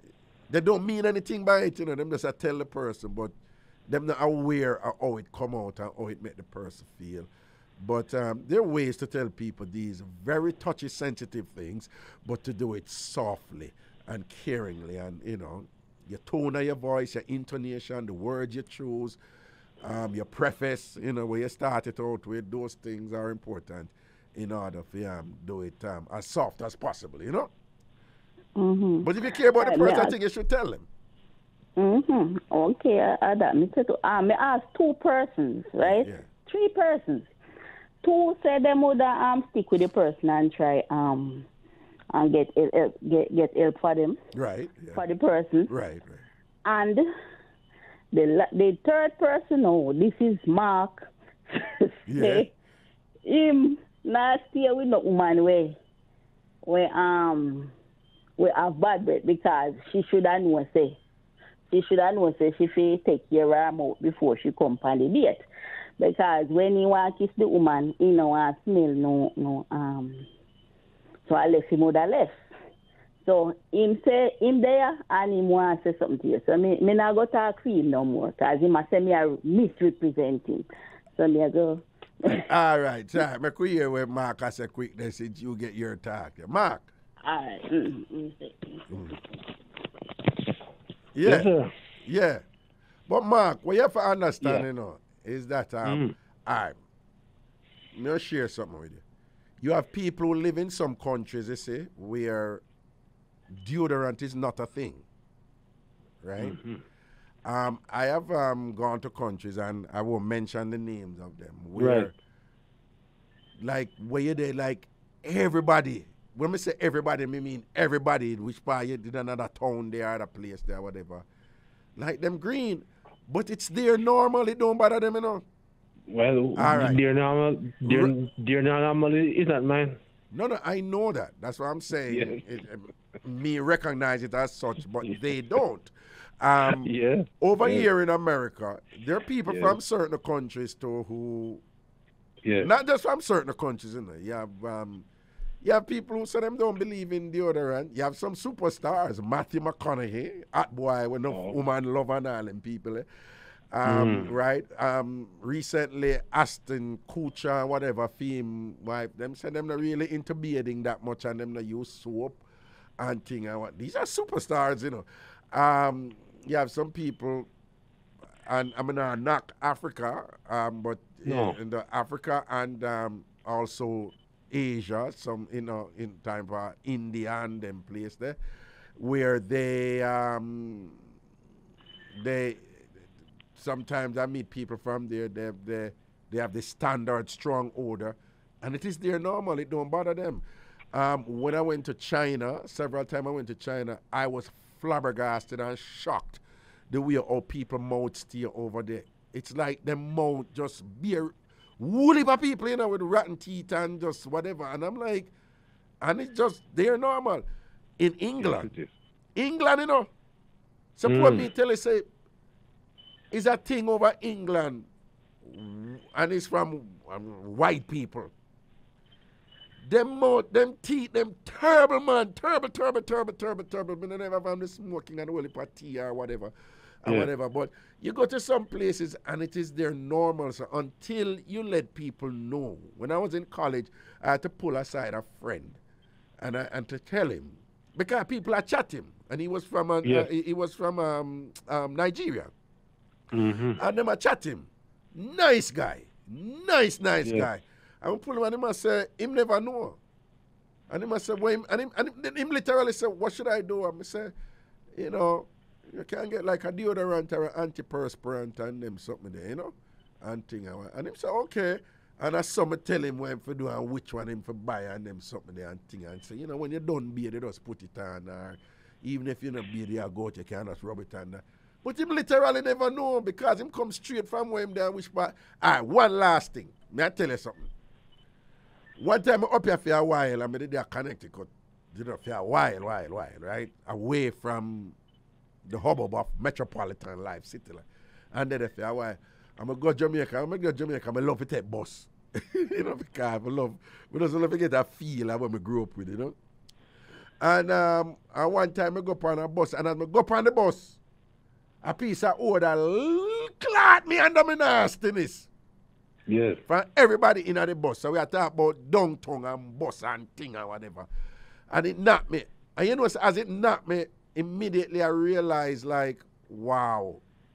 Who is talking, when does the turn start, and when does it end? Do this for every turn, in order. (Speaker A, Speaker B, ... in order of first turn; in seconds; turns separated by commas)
Speaker A: 0.5-3.3, Speaker A: 3.9-7.3, Speaker A: 7.8-19.2, Speaker A: 19.8-27.5, Speaker B: 28.6-30.1, Speaker A: 29.0-30.9, Speaker B: 31.8-37.3, Speaker A: 35.8-36.2, Speaker B: 38.0-41.5, Speaker B: 42.1-44.2, Speaker A: 44.3-45.0, Speaker B: 44.9-45.7, Speaker A: 45.7-46.2, Speaker B: 46.6-47.0, Speaker B: 48.1-52.5, Speaker A: 52.1-52.5, Speaker B: 53.2-55.8, Speaker B: 56.6-57.7, Speaker B: 58.4-61.0, Speaker B: 61.7-65.4, Speaker B: 66.0-70.3, Speaker B: 71.3-72.4, Speaker B: 73.2-82.5, Speaker A: 82.3-86.9, Speaker B: 87.2-88.8, Speaker A: 88.9-89.2, Speaker A: 91.1-91.5, Speaker C: 91.2-91.7, Speaker A: 92.0-92.4, Speaker A: 93.1-96.7, Speaker C: 94.4-94.7, Speaker C: 95.8-96.1, Speaker A: 97.9-99.0, Speaker A: 99.6-102.6, Speaker A: 103.6-105.0, Speaker A: 106.2-106.6, Speaker C: 106.4-106.8, Speaker A: 107.4-112.1, Speaker C: 111.8-112.1, Speaker A: 113.6-121.2, Speaker A: 122.0-125.4, Speaker C: 126.1-130.0, Speaker A: 126.5-127.0, Speaker A: 127.8-128.1, Speaker A: 130.3-136.9, Speaker C: 132.1-132.4, Speaker C: 136.6-137.9, Speaker A: 137.4-141.6, Speaker C: 139.5-139.8, Speaker C: 142.4-142.7, Speaker A: 142.6-145.1, Speaker A: 145.6-153.1, Speaker C: 151.3-151.6, Speaker A: 153.7-162.4, Speaker C: 153.8-154.3, Speaker A: 163.0-167.5, Speaker A: 168.4-178.4, Speaker C: 171.2-171.6, Speaker A: 179.0-181.0, Speaker A: 182.2-182.9, Speaker A: 183.6-205.3, Speaker A: 206.0-207.4, Speaker A: 208.0-208.7, Speaker C: 208.4-208.9, Speaker A: 209.3-210.1, Speaker A: 211.0-212.0, Speaker C: 211.0-211.5, Speaker A: 213.3-214.8, Speaker A: 215.4-218.3, Speaker A: 219.8-226.5, Speaker A: 227.0-235.8, Speaker A: 236.4-242.5, Speaker C: 243.3-243.8, Speaker A: 243.8-250.0, Speaker C: 247.2-247.5, Speaker A: 250.9-254.3, Speaker A: 254.9-277.7, Speaker A: 279.0-284.9, Speaker A: 285.7-296.4, Speaker A: 297.4-301.0, Speaker A: 301.8-305.5, Speaker C: 306.3-306.6, Speaker A: 306.7-311.1, Speaker A: 311.7-317.2